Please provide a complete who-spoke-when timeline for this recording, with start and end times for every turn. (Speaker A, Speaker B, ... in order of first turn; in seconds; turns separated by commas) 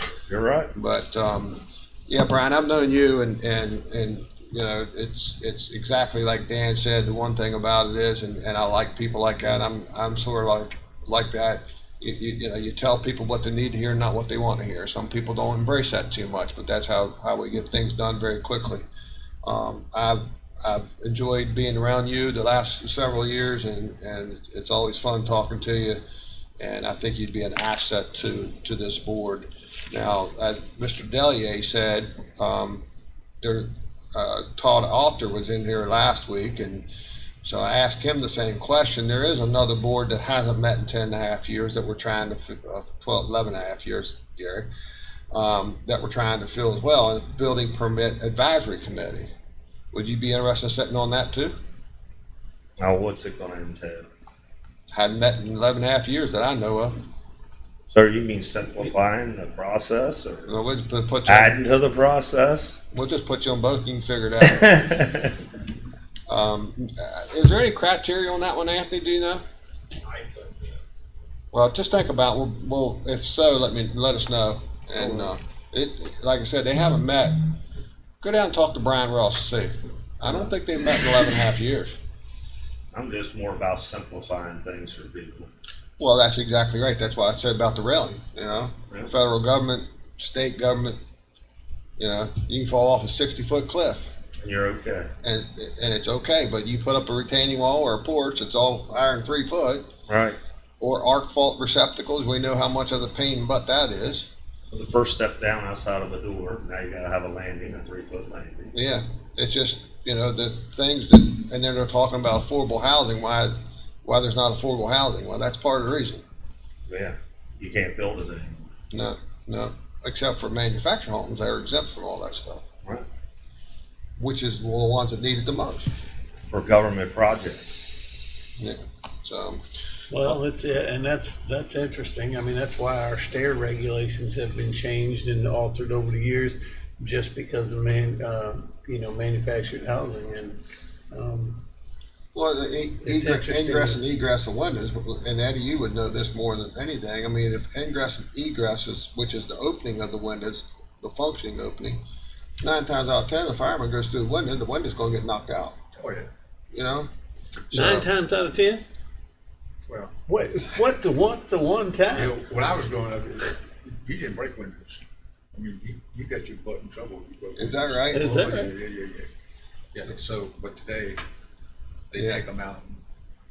Speaker A: 0.3-0.7, Speaker B: 0.7-18.9, Speaker B: 19.4-26.0, Speaker B: 26.6-32.8, Speaker B: 33.4-36.9, Speaker B: 37.4-44.7, Speaker B: 45.3-49.3, Speaker B: 49.9-51.6, Speaker A: 52.8-54.1, Speaker B: 54.9-57.0, Speaker A: 57.9-60.5, Speaker B: 60.5-61.6, Speaker A: 61.3-62.8, Speaker B: 62.9-64.9, Speaker A: 64.5-65.4, Speaker B: 66.3-69.4, Speaker B: 71.5-77.5, Speaker B: 78.2-82.0, Speaker A: 82.9-85.5, Speaker B: 86.0-91.0, Speaker B: 92.0-94.1, Speaker A: 94.4-95.1, Speaker B: 95.2-99.9, Speaker A: 100.1-100.4, Speaker B: 100.8-104.3, Speaker A: 104.7-108.7, Speaker B: 108.7-113.5, Speaker B: 114.0-116.2, Speaker A: 116.9-118.7, Speaker B: 118.9-122.6, Speaker B: 124.2-125.9, Speaker A: 126.5-127.7, Speaker B: 128.6-129.6, Speaker C: 130.1-141.6, Speaker B: 142.3-152.0, Speaker C: 143.0-144.0, Speaker B: 152.6-155.8, Speaker D: 156.0-156.3, Speaker B: 156.7-157.1, Speaker B: 157.7-158.1, Speaker C: 157.7-158.8, Speaker D: 159.9-160.2, Speaker C: 160.3-162.3, Speaker D: 162.1-165.0, Speaker D: 165.5-169.3, Speaker B: 167.6-168.3, Speaker C: 168.1-168.7, Speaker D: 169.9-171.2, Speaker D: 172.1-173.0, Speaker B: 172.2-172.4